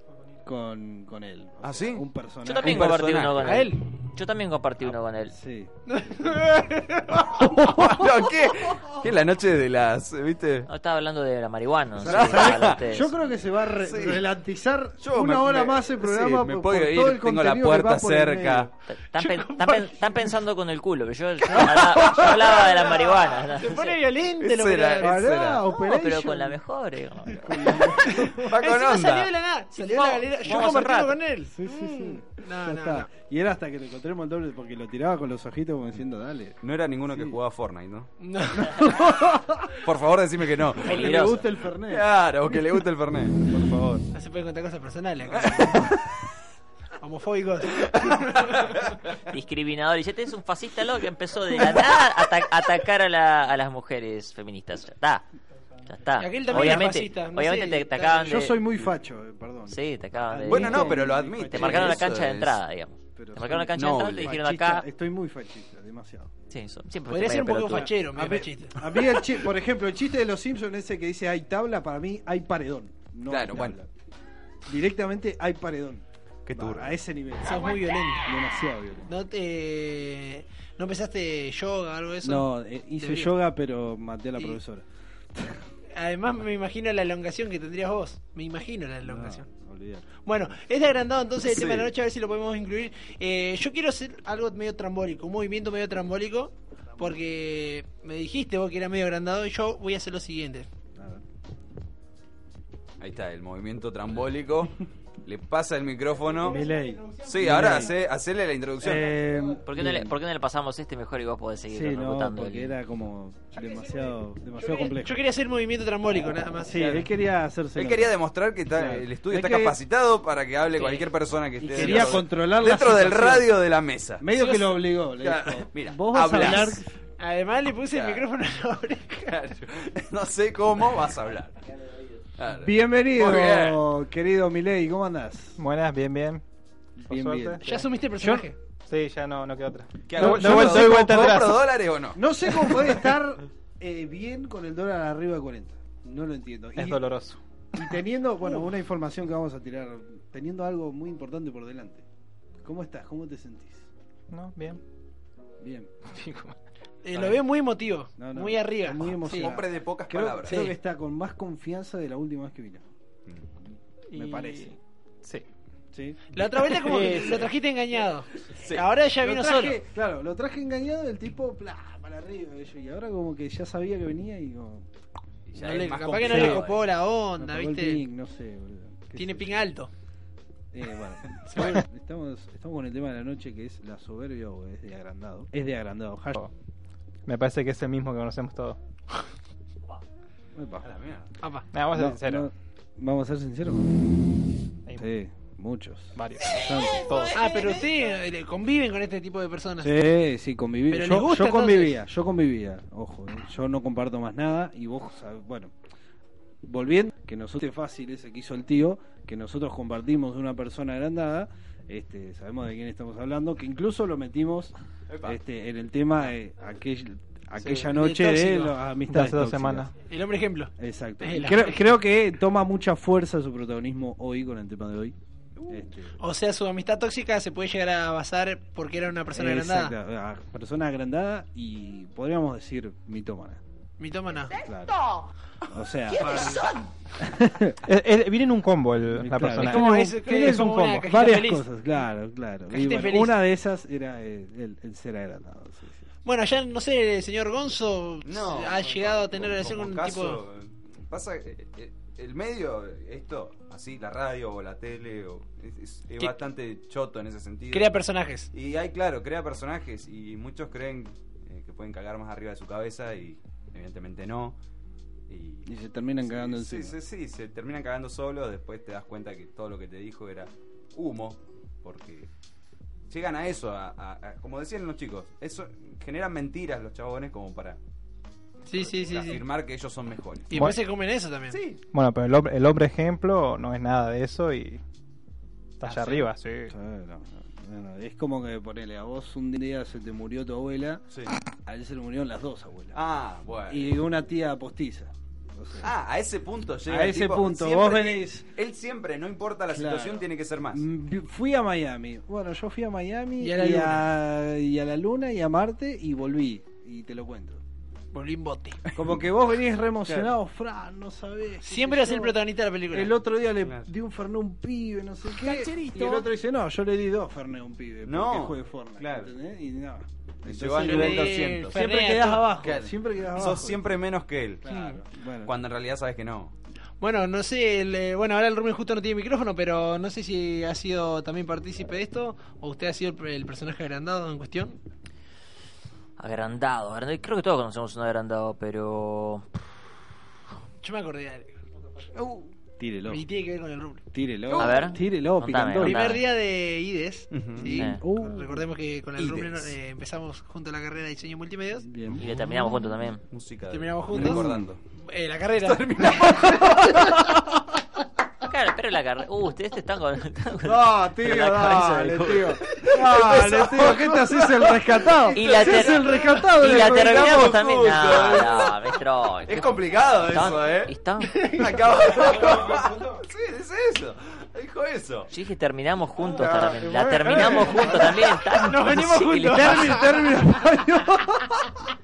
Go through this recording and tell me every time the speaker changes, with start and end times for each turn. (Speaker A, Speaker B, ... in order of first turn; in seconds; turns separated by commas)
Speaker A: 0.5-2.9, Speaker B: 1.6-2.1, Speaker C: 2.4-5.4, Speaker B: 2.6-3.6, Speaker D: 3.4-3.8, Speaker A: 5.3-5.7, Speaker D: 5.9-7.8, Speaker B: 7.7-10.7, Speaker C: 10.7-13.1, Speaker A: 12.0-18.7, Speaker B: 12.1-12.8, Speaker B: 13.8-14.2, Speaker B: 15.0-18.7, Speaker C: 18.9-24.0, Speaker D: 19.1-20.3, Speaker D: 21.5-25.3, Speaker A: 21.6-22.2, Speaker B: 24.4-25.6, Speaker A: 25.0-26.6, Speaker C: 25.9-27.8, Speaker A: 27.5-28.5, Speaker D: 27.5-33.1, Speaker B: 28.4-29.3, Speaker C: 29.7-31.2, Speaker A: 31.6-36.6, Speaker B: 36.6-38.1, Speaker A: 37.1-37.4, Speaker D: 38.2-39.1, Speaker A: 38.6-39.7, Speaker B: 39.8-41.4, Speaker A: 40.8-42.1, Speaker C: 40.8-41.4, Speaker B: 41.9-44.0, Speaker D: 44.1-45.9, Speaker B: 45.3-46.0, Speaker D: 47.0-48.7, Speaker B: 47.9-48.7, Speaker C: 49.3-55.3, Speaker C: 55.9-58.6, Speaker D: 56.2-58.4, Speaker A: 56.5-56.9, Speaker A: 58.2-62.1, Speaker C: 59.7-61.0, Speaker B: 60.5-62.6, Speaker C: 61.5-64.9, Speaker A: 63.1-66.3, Speaker B: 63.8-64.3, Speaker C: 66.5-67.9, Speaker D: 67.1-68.8, Speaker A: 67.7-73.9, Speaker B: 73.3-73.8, Speaker A: 74.7-76.0, Speaker B: 76.5-76.9, Speaker A: 76.5-77.7, Speaker D: 77.4-78.3, Speaker A: 78.3-79.1, Speaker D: 79.1-83.3, Speaker A: 82.2-84.8, Speaker D: 86.0-89.5, Speaker A: 89.0-90.2, Speaker D: 90.2-100.7, Speaker B: 91.5-91.9, Speaker A: 101.0-101.2, Speaker B: 103.0-106.6, Speaker A: 106.4-107.9, Speaker D: 106.5-107.6, Speaker B: 107.3-109.1, Speaker A: 108.8-110.1, Speaker C: 109.6-112.8, Speaker A: 111.7-115.2, Speaker D: 113.6-114.1, Speaker D: 114.6-117.0, Speaker A: 116.7-118.2, Speaker B: 116.8-117.1, Speaker B: 117.8-124.3, Speaker A: 118.7-119.8, Speaker A: 121.6-123.5, Speaker D: 121.8-122.1, Speaker A: 124.2-126.9, Speaker D: 124.3-124.7, Speaker B: 125.2-126.8, Speaker D: 127.2-129.3, Speaker B: 127.9-128.2, Speaker B: 129.3-131.6, Speaker B: 132.4-133.8, Speaker A: 132.5-135.6, Speaker E: 135.6-136.4, Speaker A: 137.0-137.6, Speaker E: 137.1-141.6, Speaker D: 137.6-138.6, Speaker B: 140.1-142.8, Speaker A: 140.2-140.9, Speaker A: 142.2-147.0, Speaker E: 146.8-147.4, Speaker A: 147.8-152.0, Speaker A: 152.6-153.9, Speaker E: 154.3-154.8, Speaker A: 155.6-155.9, Speaker E: 156.1-156.6, Speaker D: 157.0-159.6, Speaker A: 157.2-157.4, Speaker A: 158.2-162.8, Speaker B: 159.3-160.7, Speaker D: 160.5-160.8, Speaker E: 164.1-165.5, Speaker A: 164.1-164.7, Speaker A: 165.9-166.2, Speaker D: 166.3-169.8, Speaker E: 166.9-167.5, Speaker B: 168.5-168.9, Speaker A: 169.2-174.9, Speaker B: 175.5-176.9, Speaker D: 175.6-178.0, Speaker A: 176.2-176.7, Speaker A: 177.4-179.6, Speaker D: 179.2-179.9, Speaker A: 180.7-186.4, Speaker D: 181.5-181.8, Speaker E: 187.3-188.8, Speaker A: 190.6-190.9, Speaker B: 190.8-191.3, Speaker D: 191.4-191.7, Speaker E: 191.7-192.5, Speaker A: 191.9-194.4, Speaker A: 195.0-197.1, Speaker E: 196.2-197.4, Speaker D: 197.3-200.0, Speaker A: 199.8-205.7, Speaker D: 200.9-202.0, Speaker A: 206.6-219.9, Speaker B: 215.1-215.4, Speaker D: 217.7-218.8, Speaker E: 219.1-219.9, Speaker D: 220.0-221.9, Speaker A: 220.8-225.2, Speaker A: 225.7-226.2, Speaker D: 226.2-229.9, Speaker A: 229.3-233.6, Speaker D: 234.0-234.6, Speaker A: 234.6-235.0, Speaker A: 235.7-236.6, Speaker D: 236.2-236.7, Speaker A: 237.2-237.8, Speaker E: 237.9-241.1, Speaker A: 239.1-246.1, Speaker D: 239.6-241.7, Speaker D: 242.7-243.4, Speaker D: 246.2-250.4, Speaker B: 248.2-257.9, Speaker D: 257.7-258.5, Speaker B: 258.5-264.6, Speaker B: 265.3-265.7, Speaker A: 265.7-266.9, Speaker B: 266.2-272.3, Speaker B: 273.1-277.8, Speaker D: 278.7-279.4, Speaker B: 278.7-280.7, Speaker D: 280.5-281.6, Speaker E: 280.5-280.8, Speaker B: 281.5-281.8, Speaker E: 281.9-284.8, Speaker E: 285.8-286.7, Speaker A: 285.9-291.0, Speaker A: 291.6-293.0, Speaker B: 292.9-294.0, Speaker A: 293.7-295.9, Speaker B: 295.8-300.8, Speaker A: 296.9-298.4, Speaker A: 299.7-307.6, Speaker D: 303.4-304.1, Speaker D: 308.1-308.8, Speaker B: 308.9-309.2, Speaker A: 309.0-312.4, Speaker D: 311.6-313.2, Speaker A: 312.9-323.9, Speaker B: 313.6-313.9, Speaker D: 315.5-316.2, Speaker B: 318.1-319.3, Speaker B: 320.4-321.8, Speaker D: 320.8-322.6, Speaker B: 322.6-324.7, Speaker A: 324.6-325.5, Speaker D: 324.7-325.0, Speaker B: 325.4-326.6, Speaker D: 327.0-334.8, Speaker C: 336.2-339.4, Speaker D: 340.8-341.5, Speaker B: 342.1-342.5, Speaker A: 342.8-343.2, Speaker D: 343.1-344.1, Speaker A: 344.1-346.1, Speaker B: 344.5-344.9, Speaker C: 344.6-346.2, Speaker D: 345.8-351.9, Speaker B: 347.3-347.8, Speaker A: 347.6-348.7, Speaker C: 347.8-348.0, Speaker B: 349.2-349.8, Speaker A: 351.9-352.3, Speaker C: 352.2-353.2, Speaker B: 353.3-354.8, Speaker D: 353.7-357.1, Speaker A: 354.1-354.7, Speaker B: 355.6-357.2, Speaker A: 356.5-357.2, Speaker C: 358.5-362.6, Speaker A: 360.6-367.6, Speaker B: 362.7-368.8, Speaker C: 365.3-371.3, Speaker B: 369.5-370.9, Speaker D: 371.3-372.4, Speaker B: 371.6-375.3, Speaker C: 375.3-380.0, Speaker A: 376.3-378.4, Speaker D: 378.6-380.4, Speaker A: 379.4-381.6